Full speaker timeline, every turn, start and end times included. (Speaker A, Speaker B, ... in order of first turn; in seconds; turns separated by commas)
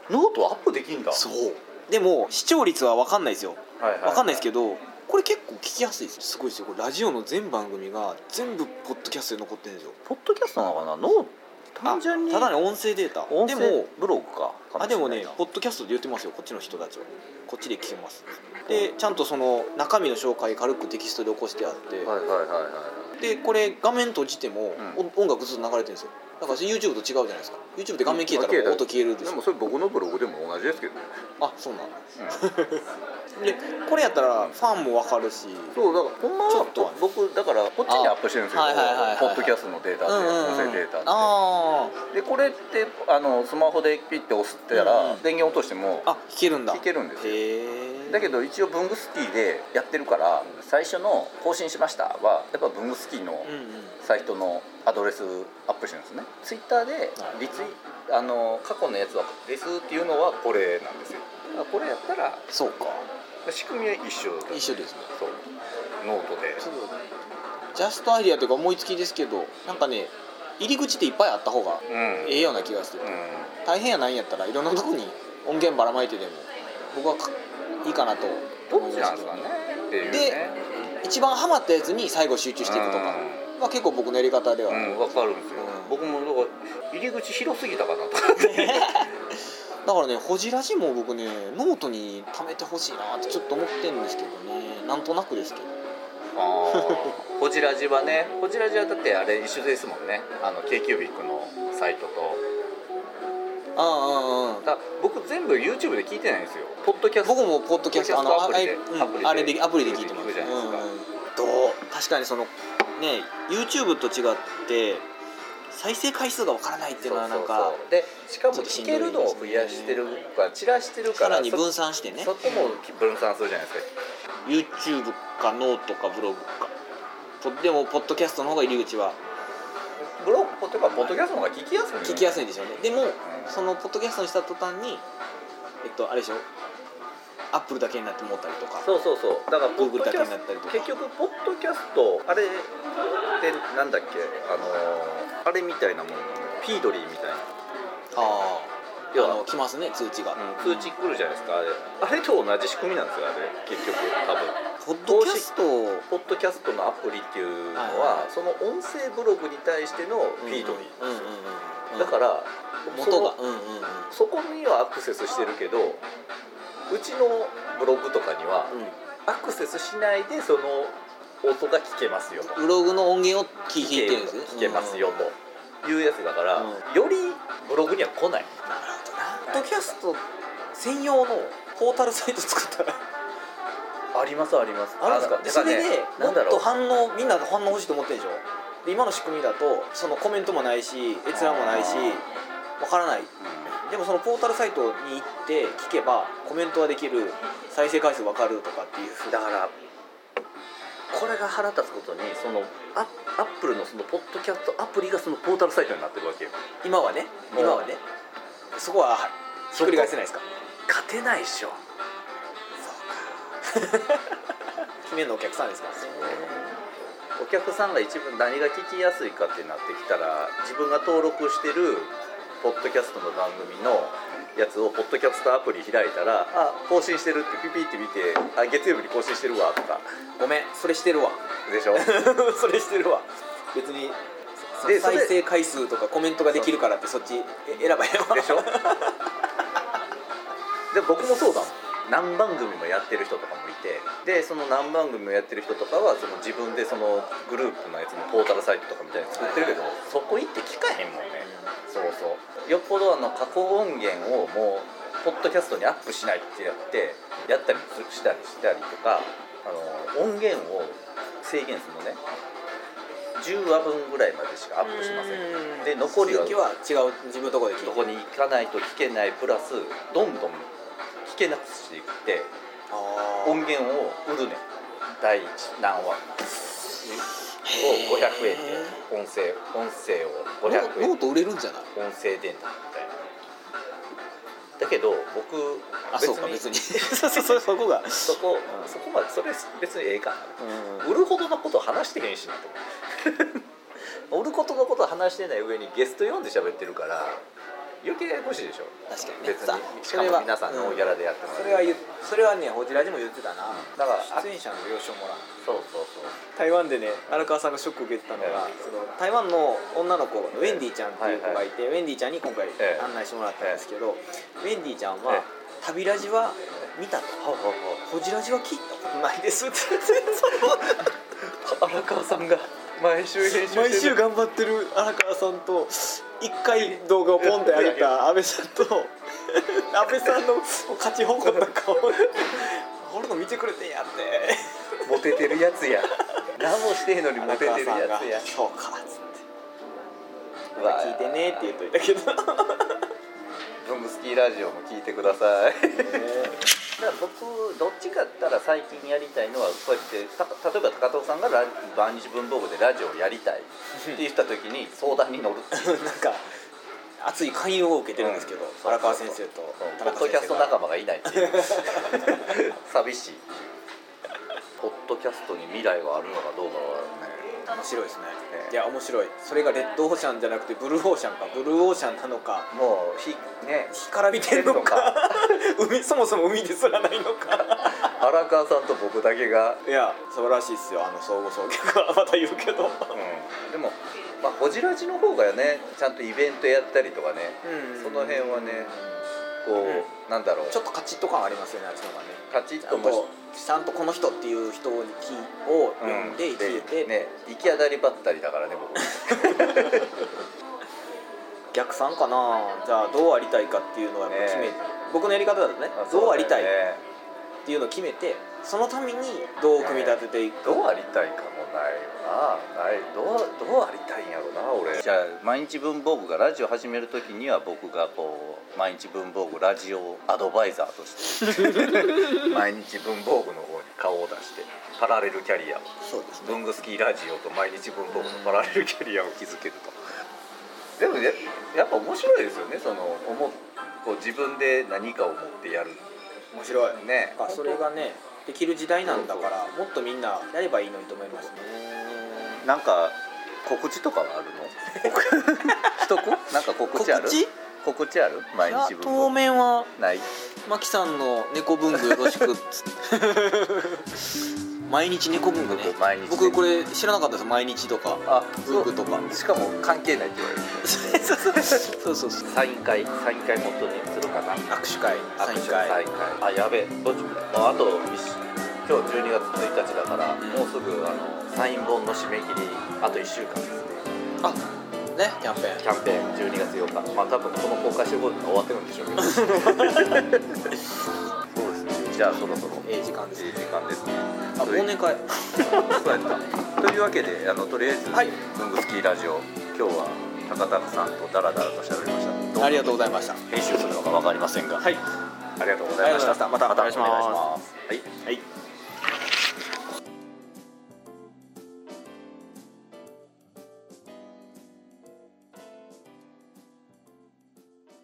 Speaker A: 0.1-1.2, Speaker B: 1.1-10.0, Speaker A: 3.8-4.5, Speaker A: 10.1-12.5, Speaker B: 11.8-13.9, Speaker A: 13.3-15.4, Speaker B: 14.8-22.1, Speaker A: 22.0-23.1, Speaker B: 23.2-29.4, Speaker A: 24.8-25.0, Speaker A: 28.1-31.1, Speaker B: 31.4-32.9, Speaker B: 33.4-35.8, Speaker A: 35.7-41.3, Speaker B: 36.5-37.0, Speaker B: 37.9-41.9, Speaker A: 42.1-46.1, Speaker B: 44.7-45.2, Speaker B: 46.0-48.4, Speaker A: 46.7-47.4, Speaker A: 48.1-53.5, Speaker B: 53.4-54.0, Speaker A: 54.0-62.4, Speaker B: 62.5-63.0, Speaker A: 63.5-65.4, Speaker B: 64.5-65.1, Speaker A: 66.0-66.6, Speaker B: 66.6-67.0, Speaker B: 67.7-79.5, Speaker A: 71.9-73.6, Speaker A: 78.7-80.6, Speaker B: 80.0-86.0, Speaker A: 82.6-83.4, Speaker A: 84.7-89.1, Speaker B: 88.3-95.7, Speaker A: 96.3-102.4, Speaker B: 96.7-97.1, Speaker B: 103.8-104.7, Speaker A: 104.6-110.9, Speaker B: 107.2-115.0, Speaker B: 115.7-117.8, Speaker A: 117.0-121.6, Speaker B: 118.5-120.2, Speaker B: 121.1-122.7, Speaker A: 122.2-123.9, Speaker B: 124.4-126.7, Speaker B: 127.4-129.2, Speaker A: 130.0-132.4, Speaker B: 132.0-135.0, Speaker A: 133.2-133.5, Speaker B: 135.8-136.4, Speaker B: 137.5-138.9, Speaker A: 138.8-142.7, Speaker B: 139.8-140.9, Speaker A: 143.3-147.5, Speaker B: 148.1-150.9, Speaker A: 149.1-149.4, Speaker A: 150.3-155.5, Speaker B: 154.8-156.1, Speaker A: 156.1-161.2, Speaker B: 157.7-158.3, Speaker B: 160.4-162.1, Speaker A: 161.9-163.3, Speaker B: 162.9-164.1, Speaker A: 164.1-166.0, Speaker A: 166.9-168.7, Speaker B: 168.7-168.9, Speaker A: 169.3-172.5, Speaker B: 172.4-175.3, Speaker A: 173.8-178.5, Speaker B: 178.6-180.2, Speaker A: 179.4-179.9, Speaker B: 180.7-183.0, Speaker A: 184.1-186.6, Speaker B: 185.0-192.2, Speaker A: 191.3-192.2, Speaker B: 192.8-199.4, Speaker A: 193.4-193.7, Speaker A: 199.3-199.7, Speaker A: 201.1-206.5, Speaker B: 206.8-208.0, Speaker A: 207.5-207.8, Speaker B: 208.7-210.4, Speaker A: 209.7-210.1, Speaker A: 210.9-211.8, Speaker B: 212.8-214.3, Speaker B: 215.0-216.6, Speaker A: 216.0-216.6, Speaker A: 217.4-230.0, Speaker B: 230.4-231.4, Speaker A: 231.7-232.1, Speaker B: 231.9-234.2, Speaker B: 234.7-239.2, Speaker A: 234.8-235.3, Speaker A: 236.5-236.9, Speaker A: 238.3-239.0, Speaker A: 240.9-262.2, Speaker B: 249.3-249.8, Speaker B: 251.4-251.7, Speaker A: 263.4-266.7, Speaker B: 264.8-268.1, Speaker A: 267.8-270.7, Speaker A: 271.2-272.5, Speaker B: 272.9-273.7, Speaker A: 273.4-274.6, Speaker A: 275.2-281.2, Speaker B: 277.6-279.0, Speaker B: 280.6-281.9, Speaker A: 281.9-283.1, Speaker A: 284.8-293.6, Speaker B: 286.1-288.9, Speaker B: 290.6-291.1, Speaker A: 294.3-297.4, Speaker A: 298.0-301.9, Speaker B: 299.1-305.5, Speaker A: 303.7-304.4, Speaker A: 305.6-306.4, Speaker B: 306.5-317.4, Speaker A: 310.5-311.6, Speaker A: 312.8-313.1, Speaker A: 317.4-318.0, Speaker B: 318.1-321.1, Speaker A: 320.4-324.2, Speaker B: 323.4-335.5, Speaker A: 326.8-328.1, Speaker A: 335.1-338.5, Speaker B: 337.4-339.4, Speaker A: 340.8-341.8, Speaker B: 340.8-343.0, Speaker A: 343.8-356.1, Speaker B: 345.9-346.6, Speaker B: 355.7-356.4, Speaker B: 357.2-362.4, Speaker A: 358.2-363.7, Speaker A: 364.8-367.5, Speaker B: 367.7-372.7, Speaker A: 372.7-375.6, Speaker B: 373.9-378.1, Speaker A: 377.6-379.8, Speaker B: 379.8-383.2, Speaker A: 383.1-389.0, Speaker B: 387.6-389.2, Speaker A: 389.6-390.8, Speaker B: 389.8-390.1, Speaker B: 390.7-397.1, Speaker A: 392.5-393.3, Speaker A: 396.0-400.2, Speaker B: 401.7-406.7, Speaker A: 404.3-404.8, Speaker A: 405.9-407.0, Speaker B: 407.6-410.9, Speaker A: 409.8-425.9, Speaker B: 426.0-426.6, Speaker A: 426.4-430.0, Speaker B: 428.1-428.8, Speaker A: 431.0-436.0, Speaker B: 436.5-442.6, Speaker A: 436.9-437.9, Speaker A: 439.0-439.5, Speaker A: 442.6-449.4, Speaker B: 444.9-446.1, Speaker B: 446.9-447.5, Speaker B: 448.6-449.9, Speaker A: 449.9-450.3, Speaker B: 450.6-454.3, Speaker A: 452.0-452.4, Speaker B: 454.9-459.3, Speaker A: 455.7-456.6, Speaker A: 458.2-461.8, Speaker B: 460.8-462.4, Speaker A: 462.4-474.1, Speaker B: 464.7-466.0, Speaker B: 470.4-470.7, Speaker B: 475.1-475.9, Speaker A: 475.8-480.6, Speaker B: 479.3-480.3, Speaker A: 481.5-484.9, Speaker B: 482.8-483.6, Speaker B: 484.6-486.1, Speaker A: 485.7-495.0, Speaker B: 488.1-488.4, Speaker B: 492.6-493.4, Speaker A: 495.6-498.1, Speaker B: 496.0-497.5